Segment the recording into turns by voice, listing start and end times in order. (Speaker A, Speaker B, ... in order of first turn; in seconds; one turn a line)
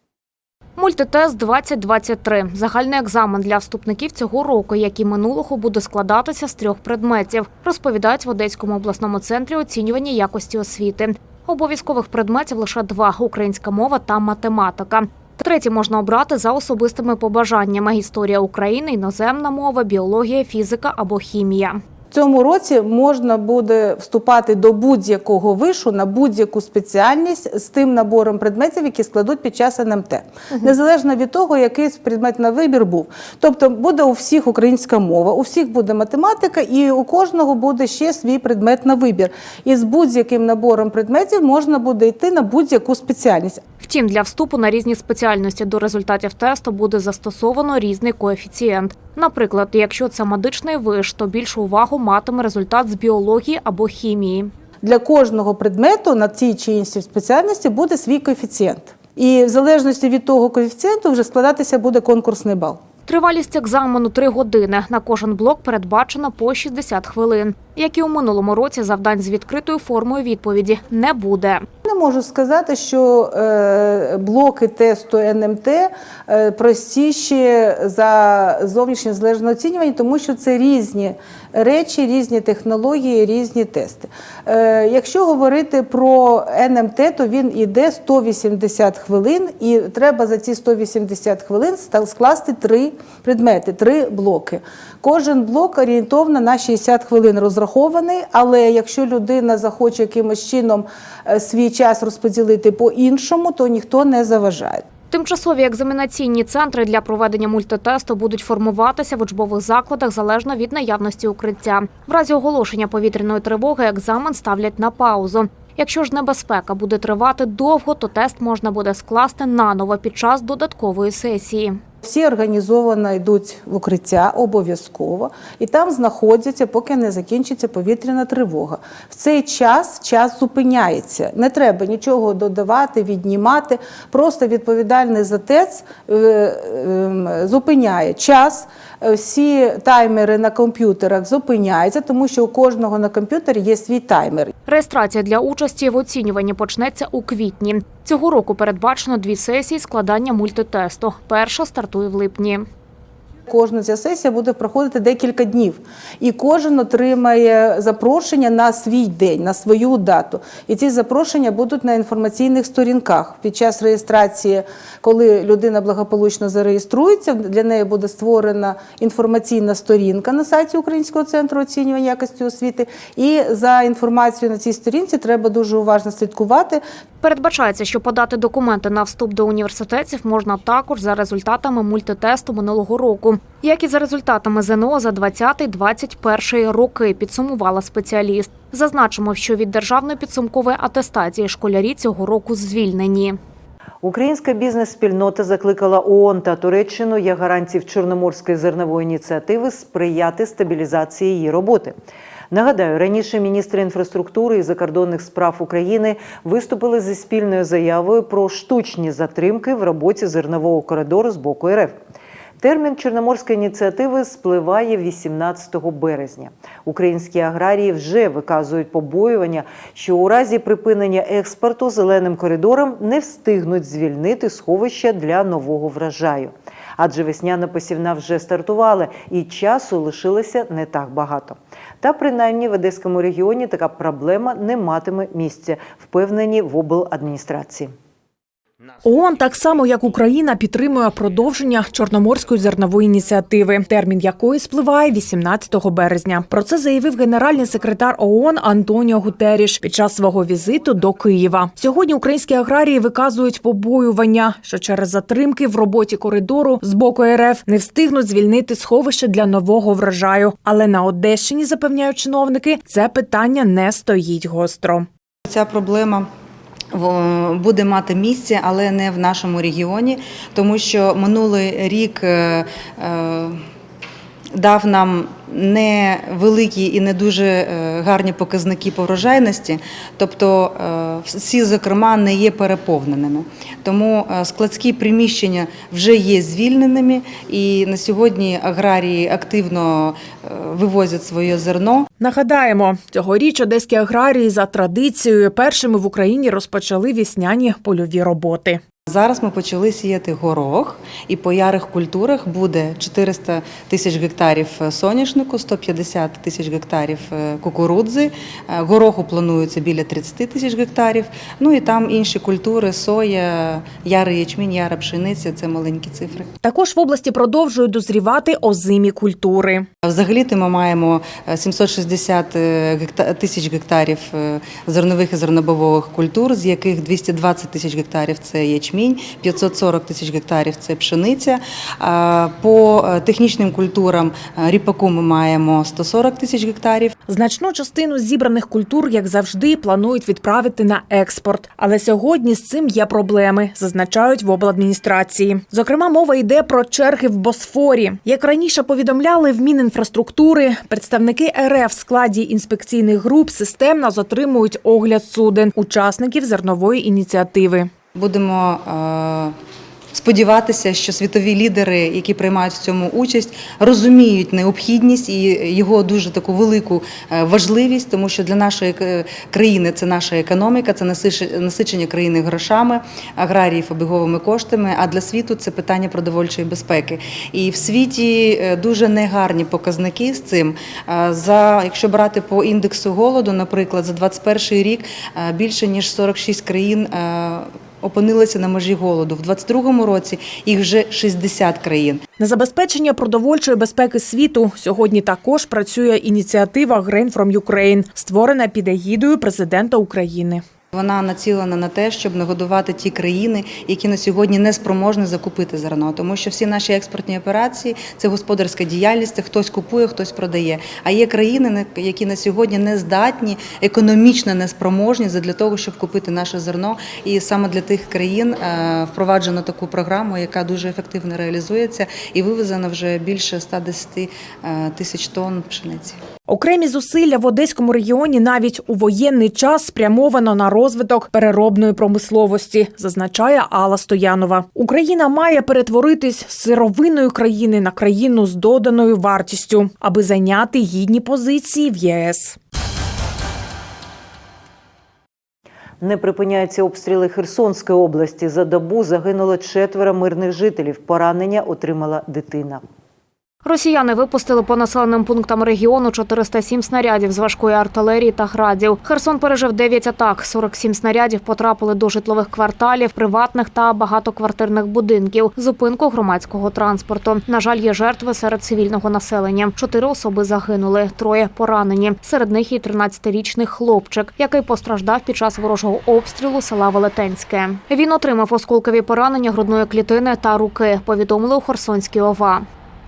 Speaker A: 0.8-21.8
Speaker B: 22.1-43.6
Speaker A: 43.8-54.5
Speaker B: 54.8-62.8
Speaker A: 63.0-71.7
Speaker B: 71.8-104.8
Speaker A: 105.1-121.8
Speaker B: 122.0-144.5
Speaker A: 144.7-152.7
Speaker B: 153.5-176.8
Speaker A: 177.2-193.4
Speaker C: 194.0-201.9
Speaker C: 202.5-211.9
Speaker C: 212.6-237.9
Speaker D: 239.0-265.1
Speaker E: 265.4-266.3
Speaker E: 266.9-273.6
Speaker E: 274.5-292.1
Speaker D: 292.2-298.8
Speaker E: 299.1-316.5
Speaker D: 316.6-319.9
Speaker E: 320.1-337.2
Speaker D: 337.3-357.9
Speaker E: 358.1-359.6
Speaker E: 360.1-392.2
Speaker D: 392.4-400.6
Speaker E: 400.9-426.2
Speaker D: 426.5-442.6
Speaker C: 446.0-452.8
Speaker A: 453.6-482.7